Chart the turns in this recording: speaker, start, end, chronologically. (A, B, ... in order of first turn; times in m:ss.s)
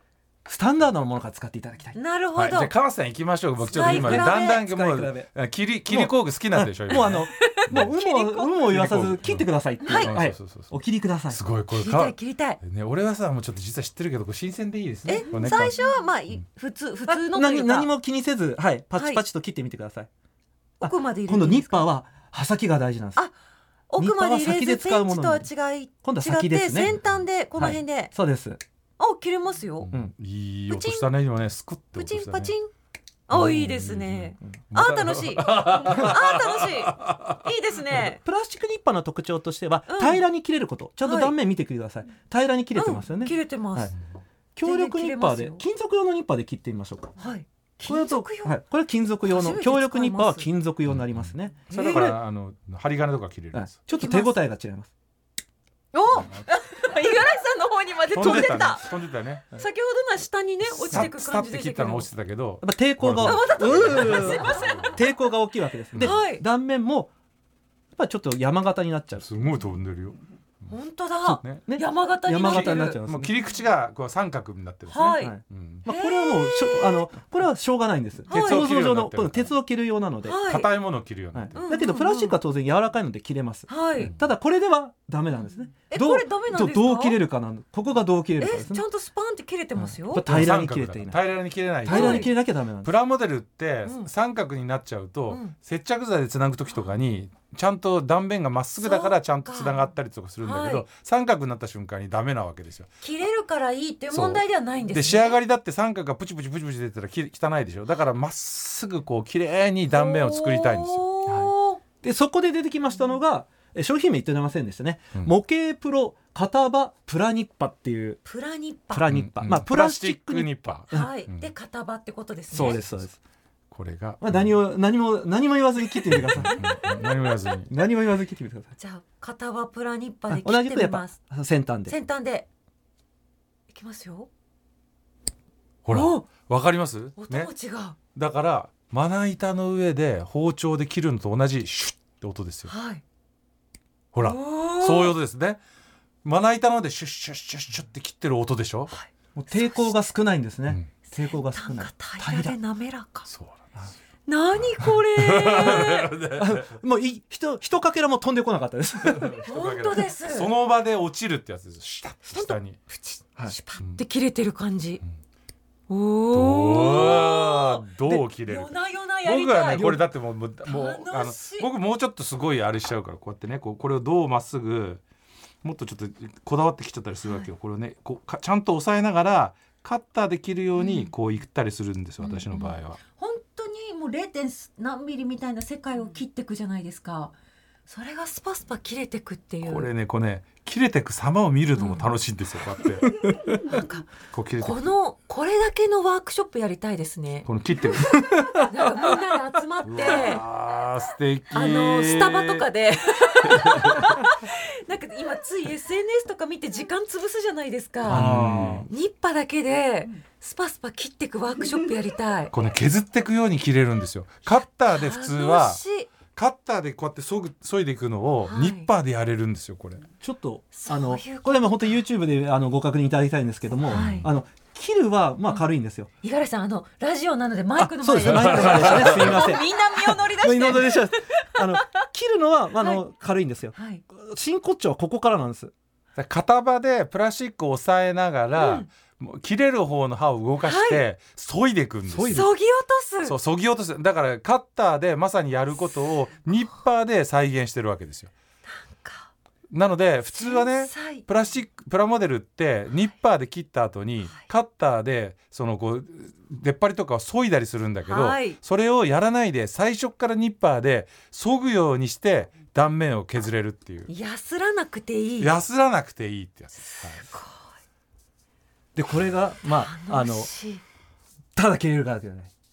0:00.4-0:02.0 A
0:02.0-0:02.7 B
0:02.4-0:07.9 C
0:03.7-0:04.6 B
0:03.7-0:05.3 A
0:05.9-0:11.4 A
0:06.9-0:08.7 B
0:08.7-0:10.7 C
0:09.8-0:10.1 B
0:11.3-0:15.7 C
0:11.7-0:12.6 B
0:15.1-0:17.9 B
0:17.1-0:20.1 A
0:19.0-0:19.2 B
0:20.8-0:23.2 A
0:20.8-0:21.9 B
0:23.9-0:28.1 B
0:24.0-0:25.5 A
0:26.0-0:27.0 A
0:27.6-0:28.6 A
0:29.0-0:29.9 B
0:29.8-0:32.5 C
0:30.7-0:31.1 B
0:32.0-0:32.7 B
0:33.3-0:38.2 B
0:33.3-0:37.4 C
0:38.0-0:43.9 A
0:39.9-0:40.2 B
0:41.0-0:41.4 B
0:42.8-0:44.0 B
0:44.6-0:47.2 A
0:44.6-0:45.6 B
0:47.2-0:48.6 B
0:47.8-0:52.2 A
0:49.2-0:50.5 B
0:50.9-0:53.8 C
0:51.7-0:52.1 B
0:53.5-0:54.9 A
0:53.9-0:54.4 B
0:55.9-0:58.9 B
0:56.2-0:56.4 C
0:58.1-0:59.5 C
0:58.2-0:58.5 A
0:59.5-1:02.1 B
1:00.7-1:05.0 C
1:02.6-1:07.1 A
1:03.2-1:05.0 B
1:06.0-1:06.4 B
1:08.0-1:09.2 A
1:09.2-1:10.7 C
1:10.7-1:13.0 B
1:11.2-1:13.3 A
1:12.4-1:15.8 C
1:14.9-1:15.4 B
1:15.2-1:20.4 A
1:15.9-1:17.0 B
1:18.3-1:19.5 C
1:18.3-1:18.7 B
1:20.2-1:20.7 B
1:20.5-1:21.7 C
1:21.3-1:28.8 A
1:21.6-1:22.4 B
1:23.7-1:24.1 B
1:25.9-1:27.2 B
1:28.4-1:30.3 B
1:29.8-1:31.2 A
1:30.2-1:42.9 C
1:31.8-1:32.9 A
1:31.9-1:32.3 B
1:33.8-1:34.1 B
1:35.3-1:35.5 B
1:38.8-1:39.9 B
1:40.4-1:40.8 B
1:43.0-1:45.4 B
1:44.1-1:51.1 C
1:49.9-1:51.8 B
1:51.3-1:58.2 A
1:58.3-1:59.1 B
1:58.9-2:01.1 A
1:59.1-2:01.5 C
2:00.9-2:02.8 B
2:02.5-2:03.2 A
2:02.5-2:03.1 C
2:03.7-2:04.4 C
2:04.2-2:06.7 A
2:06.2-2:07.7 C
2:06.4-2:07.2 B
2:07.7-2:08.7 A
2:08.8-2:11.2 B
2:10.3-2:11.9 A
2:11.9-2:12.5 B
2:13.7-2:14.3 B
2:15.8-2:17.5 C
2:15.9-2:16.3 B
2:17.2-2:18.0 B
2:18.1-2:22.7 C
2:22.7-2:23.0 B
2:24.1-2:25.6 C
2:24.2-2:25.2 B
2:26.2-2:28.9 C
2:28.9-2:29.9 B
2:29.4-2:32.6 A
2:31.1-2:33.3 B
2:33.3-2:33.9 C
2:34.3-2:36.1 B
2:35.2-2:36.8 C
2:36.4-2:39.4 A
2:39.0-2:42.8 C
2:39.4-2:40.5 B
2:42.3-2:45.0 B
2:45.9-2:47.9 B
2:46.3-2:55.0 C
2:48.4-2:50.0 B
2:50.6-2:51.7 B
2:55.6-3:03.0 C
2:57.2-2:57.5 B
3:00.8-3:01.1 B
3:02.2-3:07.3 B
3:07.9-3:09.9 B
3:09.6-3:13.1 C
3:11.8-3:12.1 B
3:13.3-3:20.4 B
3:14.3-3:14.8 C
3:17.5-3:18.5 C
3:18.0-3:18.7 A
3:19.9-3:22.6 C
3:21.5-3:28.2 B
3:23.4-3:24.2 C
3:28.1-3:28.9 A
3:28.1-3:28.9 C
3:28.9-3:32.5 B
3:32.5-3:40.0 C
3:34.5-3:36.1 B
3:38.5-3:38.9 B
3:40.2-3:46.1 A
3:40.8-3:41.9 B
3:43.9-3:44.3 B
3:43.9-3:44.3 C
3:46.2-3:52.0 B
3:47.8-3:55.7 A
3:48.2-3:49.6 C
3:53.7-3:54.0 B
3:56.2-4:02.5 C
3:58.6-3:58.9 B
4:00.6-4:01.0 B
4:02.1-4:02.5 A
4:02.3-4:03.4 B
4:03.2-4:08.3 C
4:08.9-4:09.3 B
4:09.7-4:24.1 C
4:10.3-4:11.2 B
4:18.1-4:18.6 B
4:24.1-4:25.5 B
4:25.4-4:27.3 C
4:26.8-4:27.7 B
4:29.0-4:30.5 A
4:29.6-4:30.8 B
4:31.6-4:32.5 A